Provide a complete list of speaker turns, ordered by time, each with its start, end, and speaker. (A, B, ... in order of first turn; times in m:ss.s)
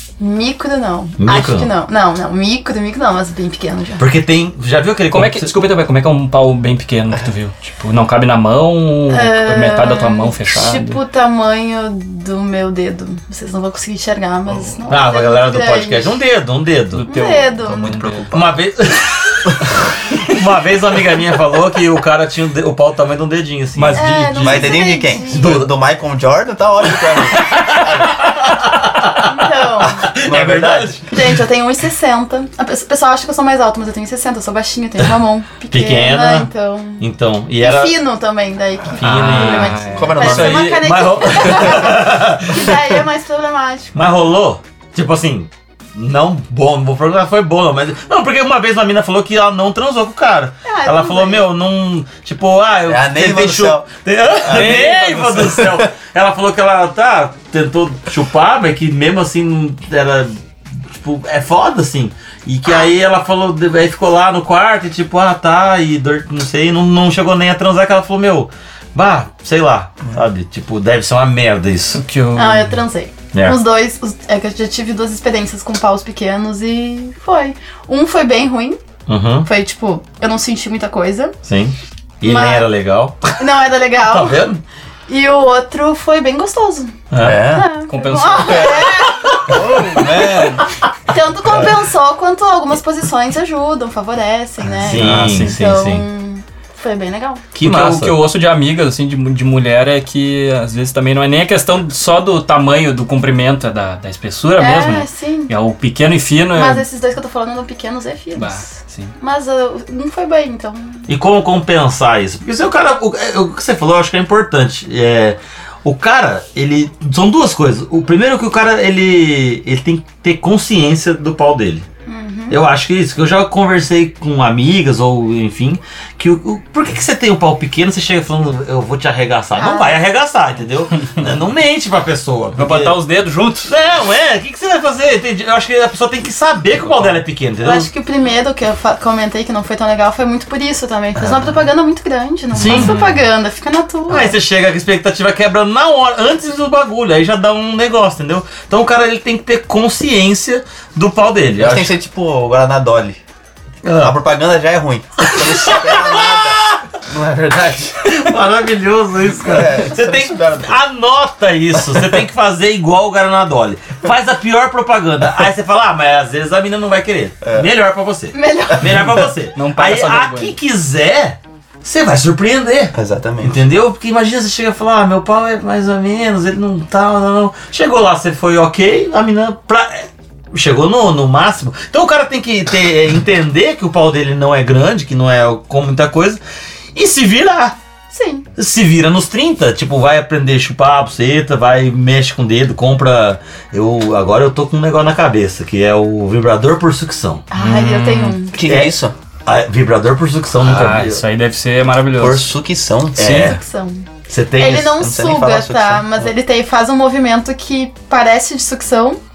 0:00.2-0:04.0 A
0:01.2-0:01.7 B
0:04.0-0:05.5 B
0:05.1-0:11.0 C
0:09.1-0:16.1 A
0:14.9-0:17.0 B
0:16.9-0:18.4 C
0:17.0-0:18.0 A
0:17.9-0:18.4 D
0:18.3-0:24.1 B
0:23.8-0:24.8 C
0:23.9-0:25.4 A
0:24.4-0:28.4 D
0:25.3-0:25.7 B
0:27.1-0:31.3 B
0:29.2-0:30.1 A
0:30.0-0:31.0 D
0:31.1-0:37.0 A
0:35.7-0:38.0 B
0:37.6-0:44.0 A
0:39.0-0:42.7 B
0:39.0-0:41.2 C
0:39.9-0:40.8 D
0:43.9-1:00.4 B
0:50.6-0:51.4 A
0:52.8-0:54.9 D
0:54.5-0:55.8 C
1:00.9-1:12.0 B
1:12.0-1:12.8 C
1:12.3-1:18.8 A
1:13.3-1:13.6 B
1:19.1-1:19.5 B
1:19.4-1:21.3 A
1:21.4-1:23.3 B
1:22.2-1:22.7 A
1:23.4-1:24.4 A
1:24.0-1:24.6 B
1:25.1-1:26.9 A
1:27.1-1:27.4 B
1:27.2-1:27.7 D
1:27.4-1:29.5 A
1:27.9-1:28.9 C
1:29.5-1:30.7 D
1:31.1-1:37.4 A
1:34.8-1:36.0 B
1:34.9-1:35.6 C
1:37.5-1:38.2 B
1:37.6-1:46.8 C
1:44.6-1:45.5 A
1:46.5-1:51.1 A
1:48.4-1:49.1 C
1:51.1-2:01.8 B
2:02.0-2:02.6 A
2:02.5-2:13.0 B
2:09.6-2:10.0 A
2:12.6-2:13.7 C
2:13.6-2:17.9 B
2:17.6-2:24.3 A
2:21.2-2:21.6 D
2:22.5-2:23.0 B
2:22.6-2:23.0 C
2:24.1-2:31.9 B
2:31.6-2:33.2 D
2:33.8-2:34.2 B
2:33.9-2:38.1 D
2:35.4-2:36.8 B
2:38.0-3:06.4 B
2:39.4-2:40.8 D
2:48.3-2:48.9 A
2:49.6-2:50.5 C
2:52.9-2:53.6 D
3:06.9-3:07.8 B
3:08.1-3:08.4 A
3:08.6-3:17.5 B
3:17.5-3:18.6 A
3:17.6-3:18.4 C
3:18.5-3:19.1 D
3:18.6-3:21.2 B
3:20.6-3:22.5 C
3:22.1-3:23.6 D
3:23.1-3:23.6 C
3:23.4-3:29.2 A
3:24.3-3:25.0 B
3:24.9-3:26.3 D